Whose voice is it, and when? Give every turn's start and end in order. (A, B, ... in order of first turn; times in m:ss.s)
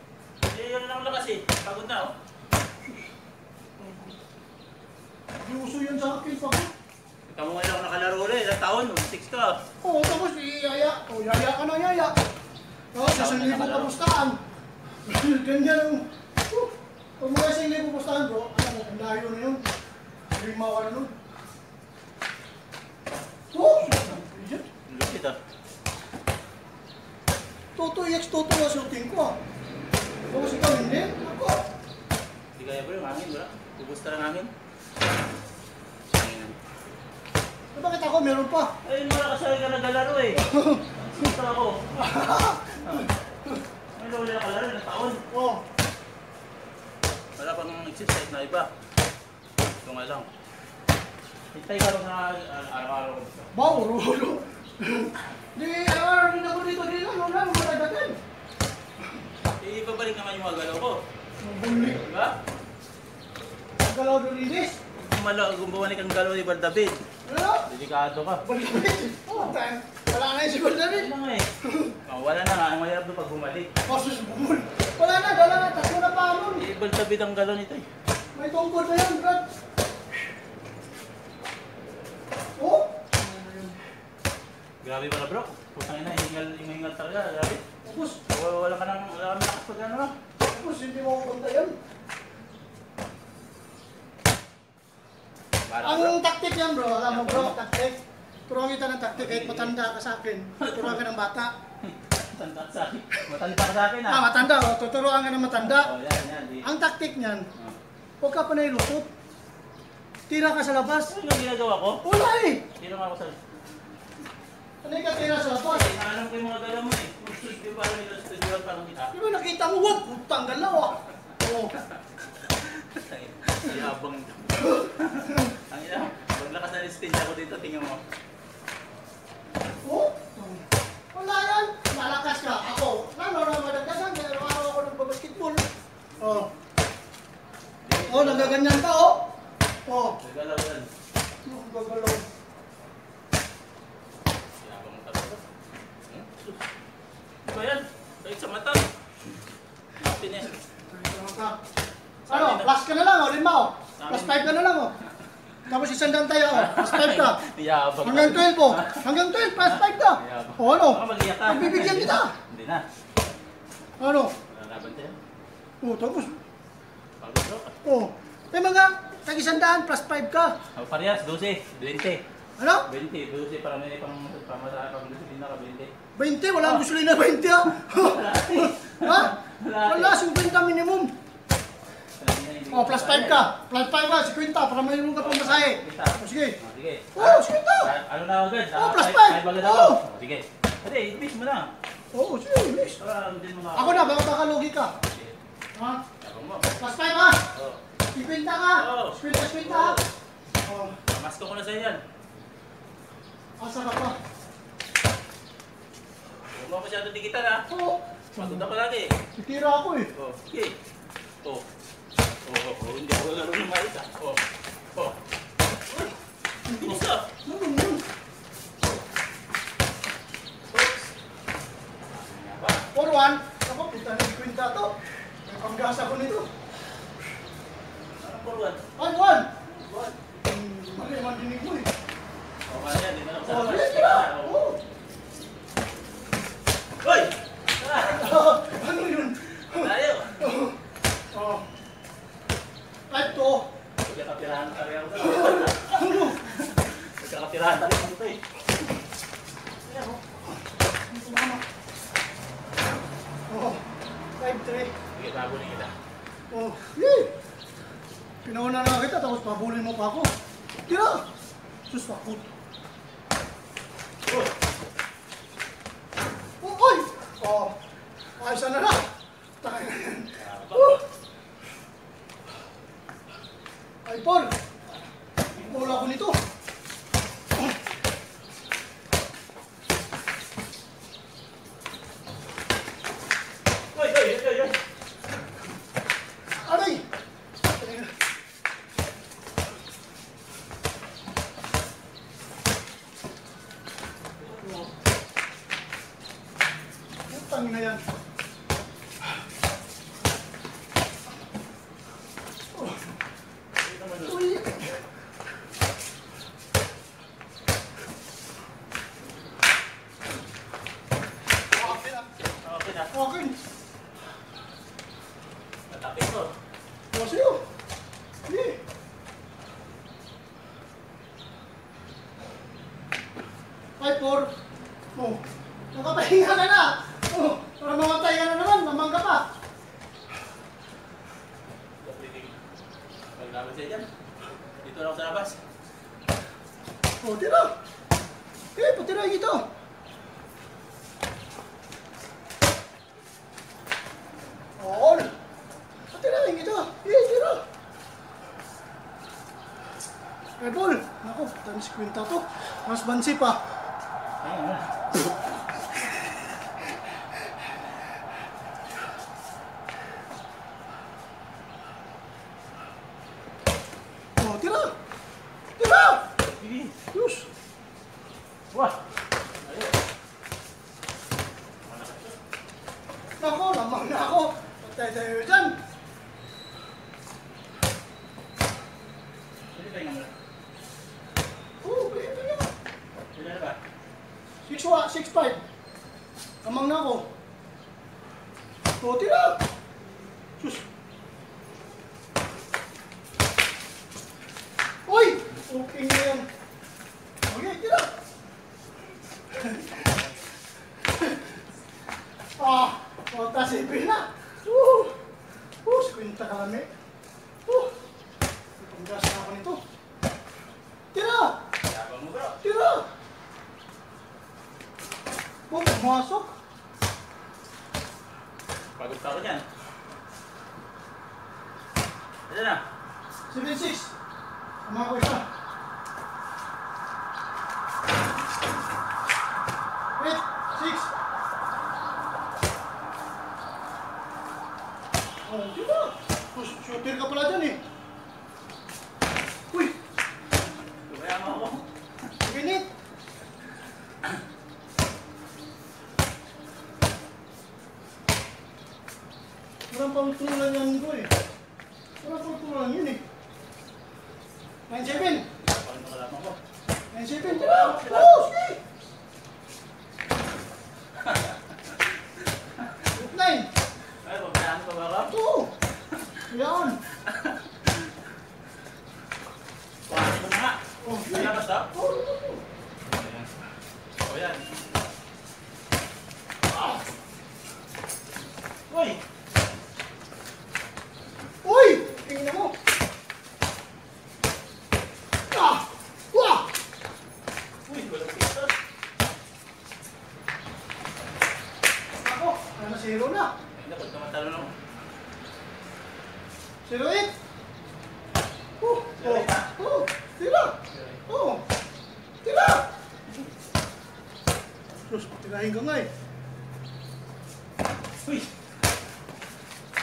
0:00.4-0:02.1 A
0:03.8-0:04.1 B
0:05.4-0:06.7 B
0:07.3-0:09.6 A
0:09.8-0:12.2 B
0:12.9-0:14.4 B
0:13.0-0:14.0 A
0:15.0-0:19.7 B
0:20.3-0:21.2 B
0:23.5-0:24.6 B
0:24.9-0:25.4 A
0:27.7-0:29.4 B
0:30.3-0:31.6 B
0:32.6-0:34.5 A
0:36.1-0:36.6 A
0:37.7-0:38.7 B
0:38.8-0:43.1 A
0:40.4-0:40.8 B
0:42.0-0:43.6 B
0:44.0-0:45.2 A
0:45.3-0:45.6 B
0:47.4-0:48.7 A
0:49.8-0:50.3 A
0:51.5-0:53.5 A
0:53.5-0:58.2 B
0:59.4-1:01.0 A
1:01.4-1:02.0 B
1:01.7-1:02.3 A
1:03.8-1:04.8 B
1:05.0-1:07.0 A
1:07.2-1:07.7 B
1:07.6-1:08.4 A
1:08.4-1:11.1 B
1:10.9-1:11.5 A
1:11.6-1:12.0 B
1:12.0-1:13.7 A
1:13.8-1:16.6 B
1:16.6-1:17.9 A
1:18.3-1:19.5 B
1:22.6-1:23.8 B
1:24.8-1:27.6 A
1:27.8-1:28.2 B
1:28.3-1:30.1 A
1:30.4-1:31.8 B
1:35.6-1:36.2 A
1:35.8-1:41.5 B
1:37.1-1:37.5 A
1:39.2-1:39.7 A
1:40.6-1:41.0 A
1:41.8-1:44.3 A
1:44.0-1:45.9 B
1:45.6-1:46.6 A
1:46.6-1:47.5 B
1:48.2-1:49.1 B
1:50.3-1:51.1 B
1:51.1-1:52.0 A
1:52.0-1:52.6 B
1:52.7-1:53.4 A
1:54.8-1:55.9 B
1:55.6-1:59.2 A
1:59.1-2:01.8 B
2:01.8-2:08.0 A
2:04.6-2:05.4 B
2:09.8-2:15.7 B
2:16.2-2:16.5 B
2:17.8-2:18.6 A
2:18.1-2:19.3 B
2:19.8-2:20.2 B
2:20.2-2:20.9 A
2:21.4-2:22.3 B
2:24.6-2:25.4 A
2:26.1-2:26.6 A
2:27.4-2:28.9 A
2:30.0-2:30.6 A
2:30.9-2:31.6 B
2:32.3-2:34.9 B
2:32.3-2:32.7 A
2:34.0-2:34.5 A
2:35.7-2:37.4 B
2:36.5-2:42.8 A
2:38.0-2:42.3 B
2:44.0-2:44.3 B
2:44.5-2:45.2 A
2:45.8-2:46.4 B
2:47.2-2:47.7 A
2:47.8-2:50.6 B
2:50.7-2:52.2 A
2:52.6-2:52.8 B
2:52.9-2:55.9 A
2:56.2-3:01.1 B
2:57.7-3:00.2 A
3:02.2-3:03.4 A
3:02.7-3:06.6 B
3:05.2-3:11.7 A
3:07.1-3:07.9 B
3:08.8-3:10.0 B
3:12.1-3:13.0 B
3:13.0-3:14.3 A
3:13.7-3:14.9 B
3:14.9-3:15.3 A
3:15.7-3:16.0 B
3:16.2-3:16.6 A
3:16.8-3:17.4 B
3:17.5-3:17.8 A
3:18.1-3:20.0 B
3:18.8-3:20.1 A
3:20.6-3:21.0 B
3:21.1-3:22.0 A
3:23.6-3:24.2 B
3:26.5-3:27.7 A
3:27.7-3:28.6 B
3:28.3-3:29.2 A
3:29.4-3:30.1 B
3:30.1-3:30.8 A
3:32.4-3:34.4 A
3:36.7-3:38.0 B
3:36.7-3:37.3 A
3:42.1-3:42.9 A
3:42.9-3:46.5 B
3:48.2-3:48.8 A
3:49.0-3:49.6 B
3:49.7-3:50.3 A
3:50.4-3:51.9 B
3:52.7-3:54.6 A
3:53.4-3:54.8 B
3:57.0-3:58.5 A
3:58.0-4:00.8 B
3:59.4-4:00.6 A
4:01.3-4:01.7 B
4:03.1-4:03.7 B
4:04.0-4:08.4 A
4:05.2-4:06.4 B
4:09.9-4:10.2 A
4:11.1-4:11.6 B
4:13.5-4:13.8 B
4:14.4-4:14.9 B
4:15.1-4:15.9 A
4:16.5-4:17.3 B
4:18.4-4:20.3 B
4:20.9-4:21.3 B
4:21.9-4:22.5 B
4:26.6-4:27.8 B
4:28.4-4:31.0 B
4:30.4-4:31.0 A
4:34.0-4:34.6 B
4:35.5-4:36.0 A
4:35.6-4:36.4 B
4:43.9-4:44.8 A
4:46.5-4:47.0 B
4:47.8-4:48.1 B
4:54.4-4:54.9 A
4:57.3-4:58.0 B
5:02.7-5:03.1 B
5:03.8-5:04.5 A
5:04.2-5:05.0 B
5:11.7-5:12.3 B
5:12.6-5:13.2 A
5:13.1-5:13.6 B
5:15.9-5:16.5 A
5:17.1-5:17.6 B
5:18.4-5:18.8 B
5:24.0-5:24.5 B
5:25.1-5:29.5 B
5:32.0-5:32.6 A
5:33.4-5:34.1 A
5:34.8-5:35.6 A
5:37.2-5:37.7 B
5:38.8-5:39.6 B
5:44.8-5:45.3 B
5:46.1-5:47.6 B
5:50.6-5:53.6 B
5:54.4-5:55.3 A
6:04.4-6:05.0 B
6:05.8-6:06.2 B
6:06.5-6:06.9 A
6:07.1-6:07.5 B
6:08.7-6:09.0 A
6:09.6-6:09.9 A
6:11.8-6:12.4 A
6:13.4-6:15.8 B
6:19.7-6:20.3 A
6:21.8-6:22.7 B
6:23.3-6:23.8 A
6:24.6-6:25.6 B
6:26.6-6:27.3 B
6:29.0-6:29.6 B
6:30.6-6:30.8 B
6:35.1-6:36.5 B
6:37.5-6:38.1 B
6:39.5-6:40.1 B
6:42.6-6:45.2 B
6:45.8-6:46.9 B
6:47.6-6:47.9 B
6:48.8-6:49.8 B
6:51.1-6:51.6 B
6:51.8-6:52.6 A
6:52.6-6:53.1 B
6:55.7-6:56.6 B
6:59.0-6:59.6 A
7:02.5-7:02.8 A
7:03.5-7:04.1 B
7:04.8-7:05.5 B
7:10.2-7:11.1 B
7:15.4-7:17.8 B
7:19.7-7:20.0 B
7:21.1-7:21.9 A
7:22.4-7:22.9 B
7:29.9-7:31.3 B
7:32.2-7:33.2 B
7:34.9-7:35.5 B
7:35.1-7:36.6 A
7:37.1-7:38.8 B
7:37.4-7:38.5 A
7:41.2-7:42.0 A
7:43.1-7:43.7 B
7:44.2-7:45.4 A
7:45.3-7:45.7 B
7:46.5-7:47.0 B
7:47.1-7:48.1 A
7:50.1-7:51.9 A
7:51.0-7:52.6 B
7:53.1-7:53.5 A
7:54.2-7:54.6 A
7:58.9-7:59.2 A
8:01.6-8:02.8 B
8:05.5-8:06.7 B
8:07.9-8:08.7 A
8:12.2-8:13.6 B
8:13.7-8:14.8 A
8:16.8-8:17.3 B
8:18.8-8:21.6 B
8:19.2-8:19.7 A
8:20.9-8:21.2 A
8:22.4-8:22.9 B
8:25.1-8:26.1 B
8:28.2-8:28.5 A